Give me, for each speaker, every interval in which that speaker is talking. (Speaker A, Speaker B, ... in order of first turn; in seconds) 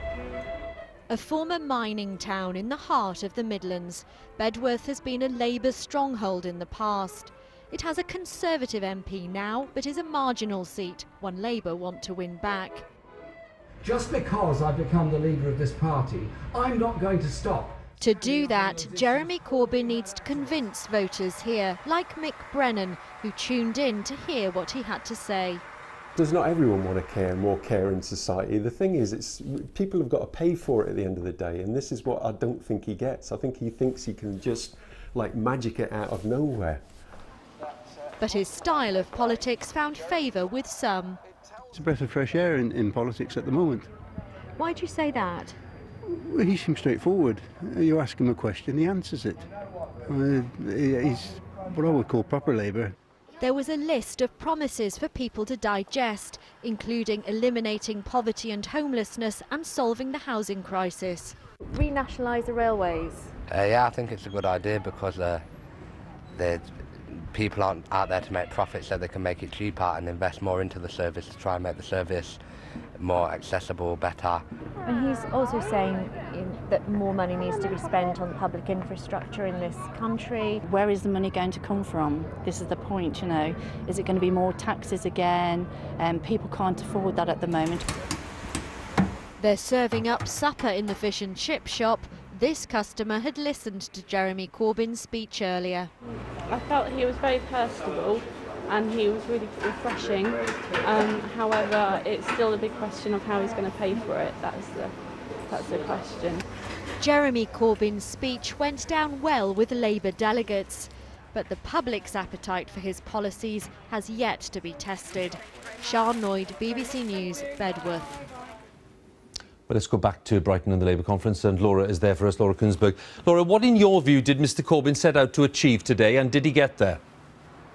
Speaker A: 1.1-12.8, 18.0-25.6, 38.2-41.2, 44.6-45.5, 53.4-61.4, 89.4-95.9, 107.0-118.1
Speaker B: 13.8-20.4
Speaker C: 26.1-36.8
Speaker D: 41.7-43.9, 46.1-49.5, 50.1-52.9
Speaker E: 61.6-63.3, 74.8-80.7
Speaker F: 63.5-65.4, 66.3-72.4, 73.0-74.4
Speaker G: 80.7-87.9
Speaker H: 96.4-105.0, 105.5-106.4
Speaker I: 119.7-127.0